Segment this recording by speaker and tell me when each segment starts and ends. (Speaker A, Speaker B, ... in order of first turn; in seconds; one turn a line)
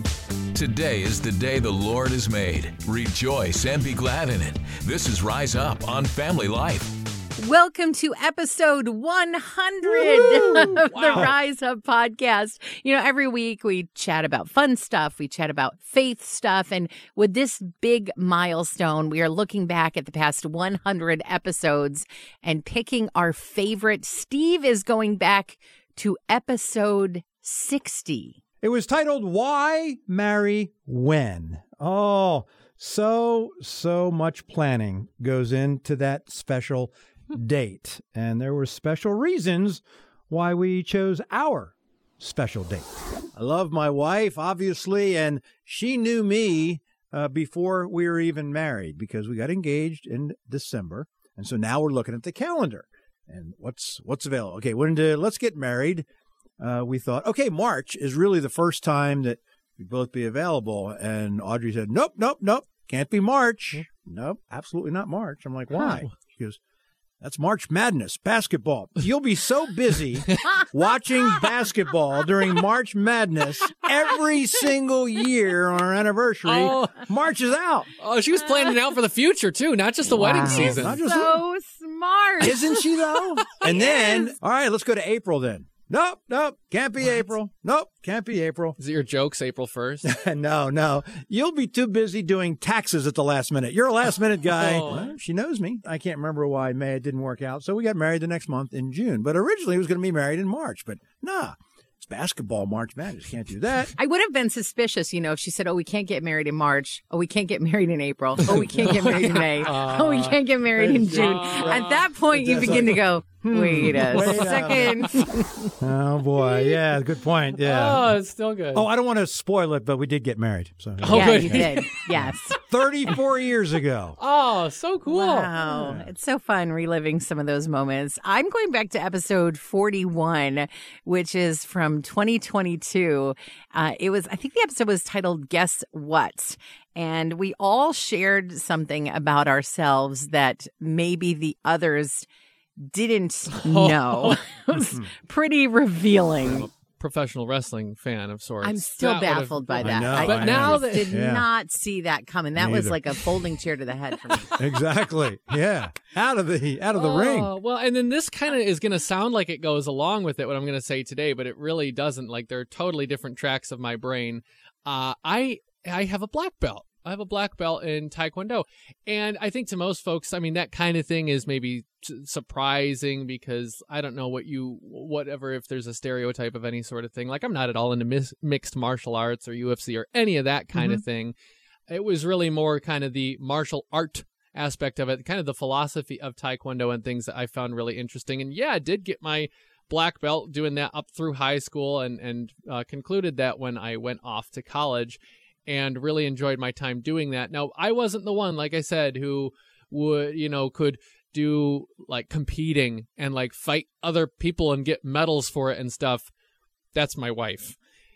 Speaker A: 0.5-6.9
Speaker B: 7.4-28.4
Speaker C: 10.0-11.3
Speaker D: 10.8-11.3
Speaker C: 28.6-56.1
Speaker C: 56.6-66.6
Speaker D: 65.7-66.1
Speaker C: 67.2-77.9
Speaker D: 76.5-77.1
Speaker D: 78.0-81.0
Speaker B: 80.1-82.8
Speaker C: 80.4-81.4
Speaker C: 82.4-88.8
Speaker B: 83.7-84.3
Speaker D: 88.8-90.1
Speaker C: 90.0-104.0
Speaker D: 94.5-95.1
Speaker B: 104.0-115.7
Speaker D: 108.6-113.0
Speaker C: 112.4-115.1
Speaker D: 113.8-115.3
Speaker C: 115.8-118.2
Speaker D: 117.6-118.9
Speaker C: 118.7-124.2
Speaker D: 121.0-121.9
Speaker B: 121.1-122.6
Speaker D: 124.2-125.5
Speaker B: 125.1-142.3
Speaker C: 125.8-126.1
Speaker B: 142.8-146.7
Speaker D: 143.5-144.4
Speaker C: 144.7-145.1
Speaker D: 146.4-151.2
Speaker B: 148.6-154.7
Speaker C: 149.8-151.5
Speaker C: 152.6-153.0
Speaker C: 154.5-157.5
Speaker D: 156.9-181.3
Speaker B: 180.8-181.0
Speaker D: 181.9-206.3
Speaker D: 206.9-207.8